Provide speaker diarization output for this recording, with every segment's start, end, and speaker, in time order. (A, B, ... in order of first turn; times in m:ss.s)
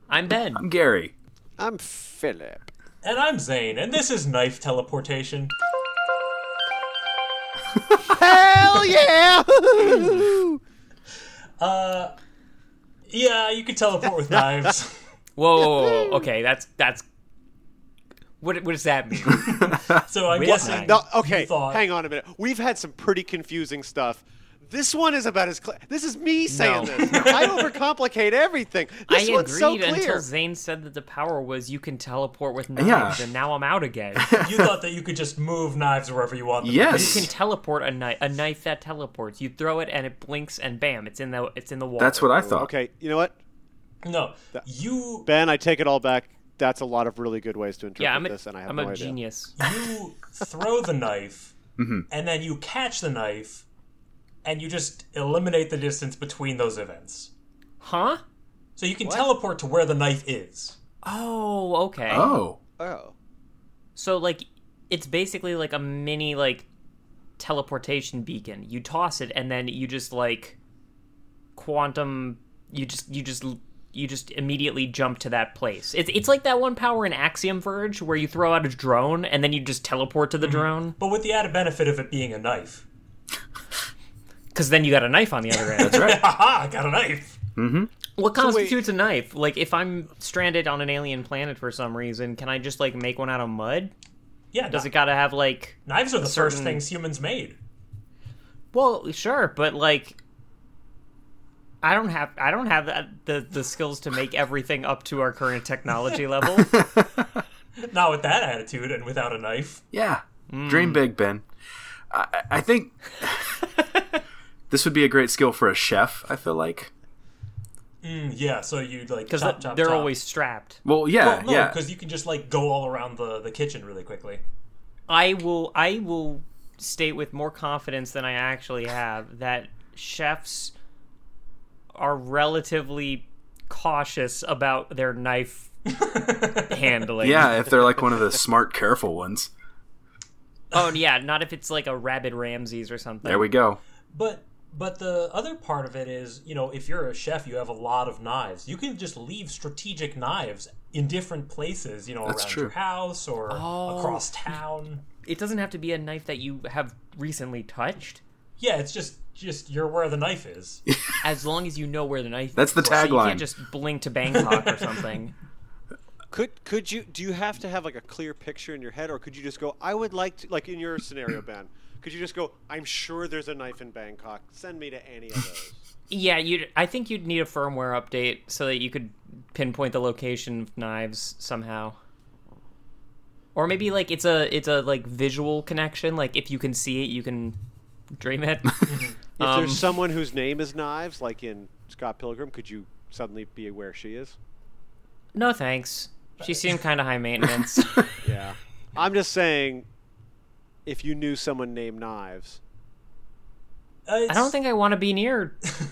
0:00.1-0:00.6 A
0:00.5-0:01.1 B
0:01.6-0:02.7 C
0:03.0-0:05.5 D
0:08.0-0:10.6 C
0:11.6-0:12.1 D
0:13.1-0:15.0 D
0:14.3-0:14.7 C
0:15.4-0:17.0 A
0:15.7-0:16.3 C
0:18.4-0:19.5 A
0:19.3-0:21.8 D
0:20.3-0:21.0 A
0:20.4-0:30.3 C
0:26.5-0:27.3 A
0:27.0-0:27.6 D
0:29.1-0:34.3 A
0:32.8-0:33.2 B
0:34.2-0:34.6 B
0:34.4-0:37.3 D
0:36.6-0:37.3 B
0:36.9-0:42.3 A
0:42.0-0:42.7 B
0:42.5-0:43.4 C
0:44.0-0:45.3 D
0:45.2-0:49.2 C
0:48.0-0:49.6 A
0:49.6-0:51.5 D
0:51.8-0:52.0 B
0:52.1-0:53.6 D
0:54.4-0:57.3 D
0:57.8-0:58.2 A
0:58.8-1:00.8 D
0:59.0-0:59.3 A
1:01.0-1:02.4 A
1:02.1-1:02.6 B
1:02.8-1:03.1 C
1:04.0-1:06.6 A
1:07.4-1:10.6 A
1:11.6-1:21.0 A
1:20.4-1:22.8 D
1:24.5-1:26.1 A
1:25.8-1:26.3 B
1:25.8-1:27.4 D
1:27.6-1:27.9 B
1:28.2-1:33.9 A
1:28.4-1:28.8 C
1:34.5-1:34.9 D
1:34.7-1:36.8 A
1:35.8-1:37.6 D
1:38.7-1:40.2 A
1:41.8-1:46.8 A
1:47.8-1:49.8 D
1:49.9-1:51.4 B
1:50.5-1:51.0 A
1:52.1-1:53.6 B
1:54.7-1:56.9 B
1:58.0-2:00.2 D
1:59.3-2:00.8 A
2:00.8-2:01.8 B
2:01.2-2:04.4 D
2:05.1-2:10.7 A
2:11.9-2:15.7 A
2:15.9-2:17.1 D
2:16.6-2:17.7 A
2:17.2-2:19.5 B
2:20.7-2:23.5 A
2:23.2-2:23.8 B
2:24.1-2:35.0 D
2:32.2-2:32.7 B
2:33.5-2:34.4 A
2:35.2-2:38.2 A
2:38.6-2:40.8 D
2:40.9-2:41.2 B
2:41.2-2:45.3 A
2:42.5-2:43.4 B
2:42.8-2:43.1 D
2:44.3-2:44.8 D
2:46.3-2:55.8 C
2:56.1-3:02.0 A
3:03.5-3:07.6 A
3:08.2-3:09.9 A
3:08.9-3:09.2 D
3:09.4-3:14.4 C
3:15.3-3:18.1 A
3:18.2-3:19.8 C
3:20.8-3:22.6 C
3:24.0-3:24.6 D
3:24.3-3:25.6 A